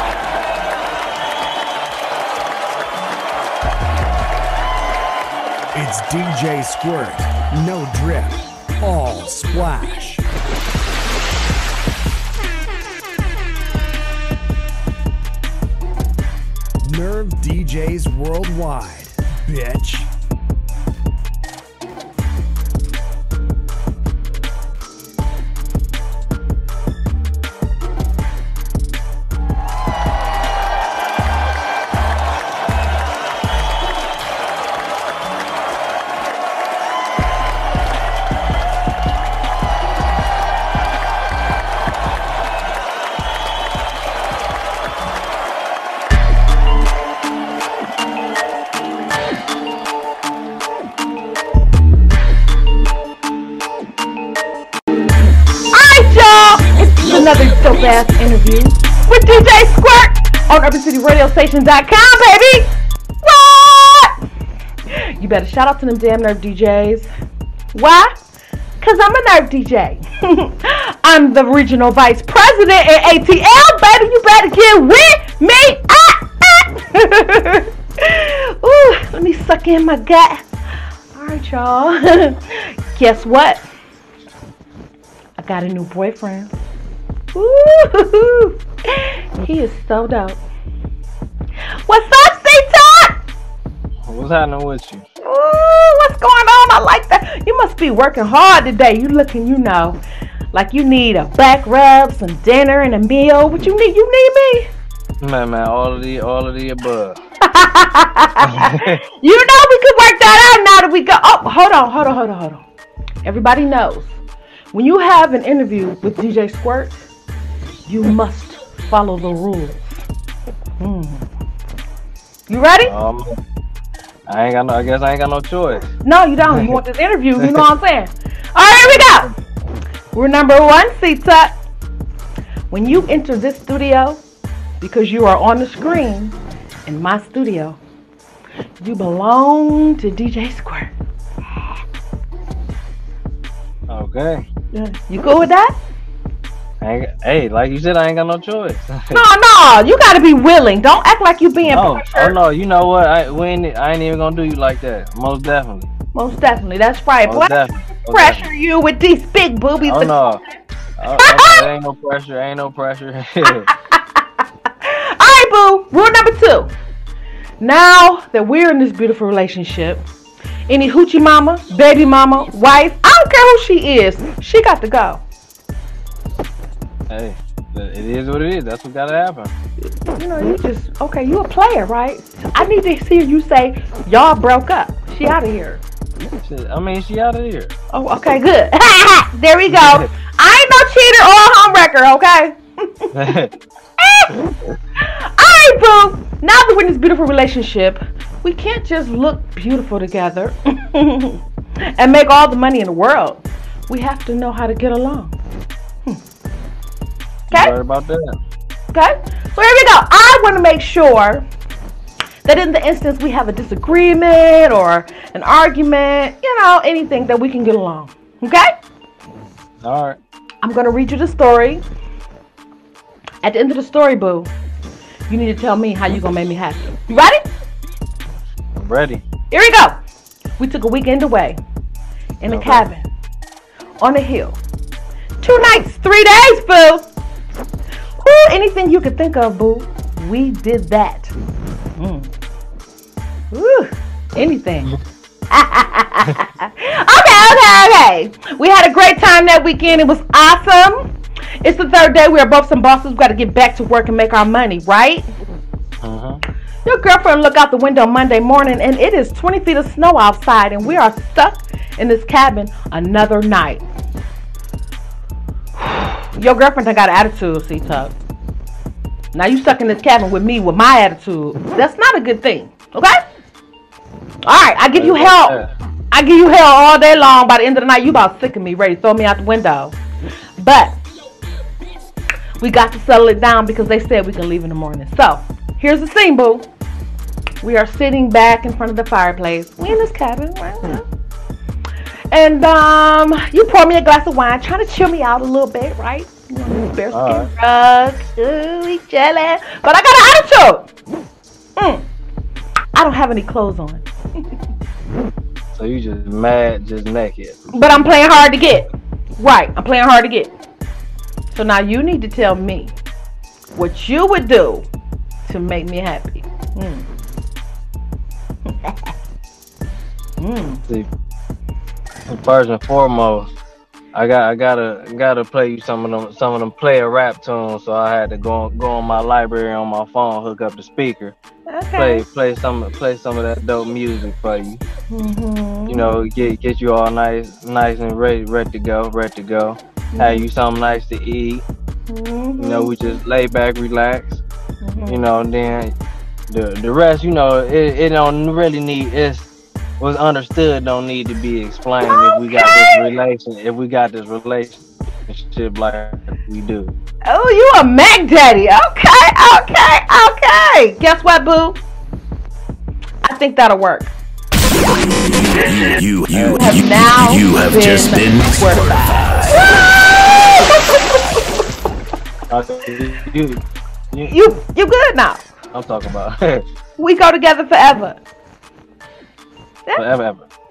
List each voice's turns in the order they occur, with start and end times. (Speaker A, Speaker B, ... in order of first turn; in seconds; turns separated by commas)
Speaker A: 5.7-10.2, Speaker A: 16.8-20.1, Speaker B: 55.7-64.2, Speaker B: 64.9-67.1, Speaker B: 67.7-68.2, Speaker B: 68.8-80.5, Speaker B: 81.1-83.6, Speaker B: 85.4-86.5, Speaker B: 87.3-90.4, Speaker B: 91.9-93.2, Speaker C: 94.0-95.0, Speaker B: 95.2-100.0, Speaker B: 100.5-104.7, Speaker C: 105.2-107.2, Speaker B: 107.4-112.6, Speaker C: 108.4-109.0, Speaker B: 113.2-114.2, Speaker B: 114.7-117.0, Speaker B: 117.9-120.0, Speaker B: 120.8-121.2, Speaker B: 122.5-122.9, Speaker C: 122.8-123.3, Speaker C: 124.3-125.9, Speaker B: 126.0-129.3, Speaker C: 126.5-126.8, Speaker C: 128.8-129.3, Speaker B: 130.1-131.6, Speaker B: 132.7-134.2, Speaker B: 134.8-137.8, Speaker B: 138.8-140.9, Speaker C: 143.9-144.4, Speaker B: 144.7-145.7, Speaker C: 146.8-149.2, Speaker B: 149.1-152.3, Speaker C: 151.7-155.9, Speaker B: 156.1-160.2, Speaker C: 157.2-158.4, Speaker C: 159.8-160.4, Speaker C: 161.0-163.7, Speaker B: 161.2-161.6, Speaker B: 163.4-164.2, Speaker B: 164.8-166.7, Speaker B: 167.6-170.0, Speaker B: 170.7-175.2, Speaker C: 177.1-179.5, Speaker B: 180.1-185.8, Speaker C: 186.4-187.7, Speaker B: 187.9-193.1, Speaker C: 189.7-190.1, Speaker C: 193.1-193.5, Speaker B: 194.0-194.3, Speaker B: 195.0-205.3, Speaker C: 207.5-208.4, Speaker B: 208.9-211.4, Speaker B: 212.4-218.8, Speaker C: 219.8-220.2, Speaker B: 220.6-221.8, Speaker B: 223.4-224.5, Speaker B: 225.3-227.4, Speaker C: 228.8-229.2, Speaker B: 229.5-230.0, Speaker B: 230.6-231.6, Speaker B: 232.4-233.0, Speaker C: 232.5-232.8, Speaker B: 234.0-234.6, Speaker B: 235.4-237.1, Speaker B: 238.2-241.3, Speaker B: 242.0-242.3, Speaker B: 243.5-244.9, Speaker B: 245.5-251.1, Speaker B: 251.6-255.3, Speaker C: 256.0-256.4, Speaker B: 256.8-263.9, Speaker B: 265.8-268.1, Speaker B: 269.3-273.2, Speaker B: 274.5-275.6, Speaker C: 274.9-275.7, Speaker B: 276.1-280.0, Speaker B: 280.6-281.0, Speaker B: 282.6-286.7, Speaker B: 287.6-291.1, Speaker B: 292.3-300.9, Speaker C: 297.1-297.5, Speaker B: 301.8-302.0, Speaker B: 302.9-304.1, Speaker C: 305.7-307.6, Speaker B: 307.7-310.5, Speaker B: 311.5-312.9, Speaker B: 313.7-314.9, Speaker B: 315.4-317.1, Speaker B: 318.7-319.0, Speaker B: 320.4-320.8, Speaker C: 322.3-323.5, Speaker C: 324.1-331.3, Speaker B: 331.7-332.2, Speaker C: 332.0-334.8, Speaker B: 335.1-336.1, Speaker C: 335.9-341.6, Speaker B: 340.1-340.4, Speaker B: 342.1-343.2, Speaker C: 342.6-344.4, Speaker B: 344.8-345.2, Speaker C: 345.1-345.9, Speaker C: 346.5-349.5, Speaker C: 350.0-356.9, Speaker B: 352.1-353.1, Speaker B: 357.3-361.8, Speaker B: 363.2-364.1, Speaker D: 364.9-369.6, Speaker C: 366.3-366.6, Speaker B: 366.4-369.7, Speaker B: 370.6-371.3, Speaker C: 372.5-374.3, Speaker B: 374.3-375.5, Speaker C: 375.7-376.6, Speaker B: 377.0-378.2, Speaker C: 379.9-380.4